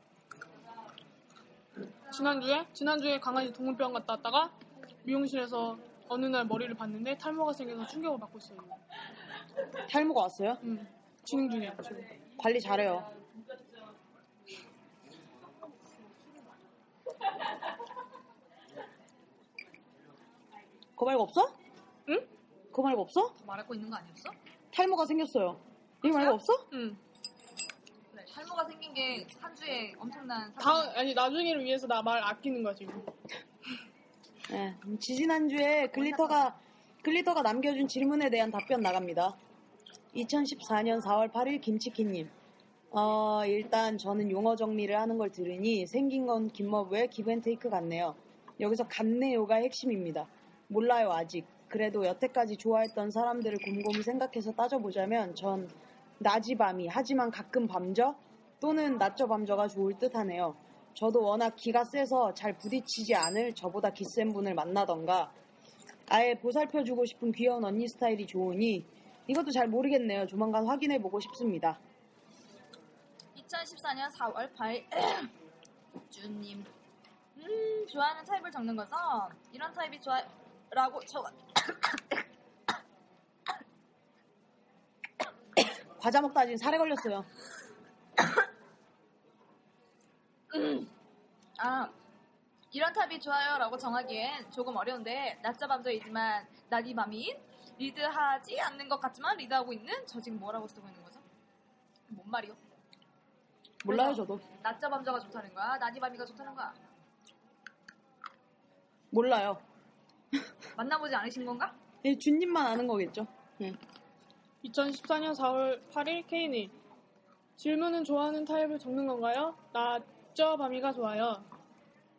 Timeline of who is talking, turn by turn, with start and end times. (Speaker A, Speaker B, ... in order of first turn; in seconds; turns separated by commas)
Speaker A: 2.1-8.8, Speaker B: 9.9-10.6, Speaker A: 10.6-12.0, Speaker B: 12.4-13.1, Speaker B: 21.0-21.6, Speaker B: 22.7-23.3, Speaker C: 23.4-24.4, Speaker B: 24.7-26.7, Speaker A: 26.1-27.0, Speaker C: 28.1-31.0, Speaker A: 30.6-33.0, Speaker B: 34.5-39.4, Speaker B: 40.1-42.3, Speaker B: 42.9-65.3, Speaker B: 66.1-71.8, Speaker C: 73.3-75.3, Speaker C: 76.1-76.7, Speaker C: 77.3-82.2, Speaker B: 86.0-87.3, Speaker C: 90.5-90.9, Speaker C: 91.6-91.9, Speaker C: 92.7-101.2, Speaker C: 102.1-102.6, Speaker B: 103.8-104.4, Speaker C: 103.8-106.8, Speaker B: 109.1-109.6, Speaker C: 110.8-111.7, Speaker B: 112.0-113.8, Speaker A: 114.6-116.7, Speaker A: 117.6-121.5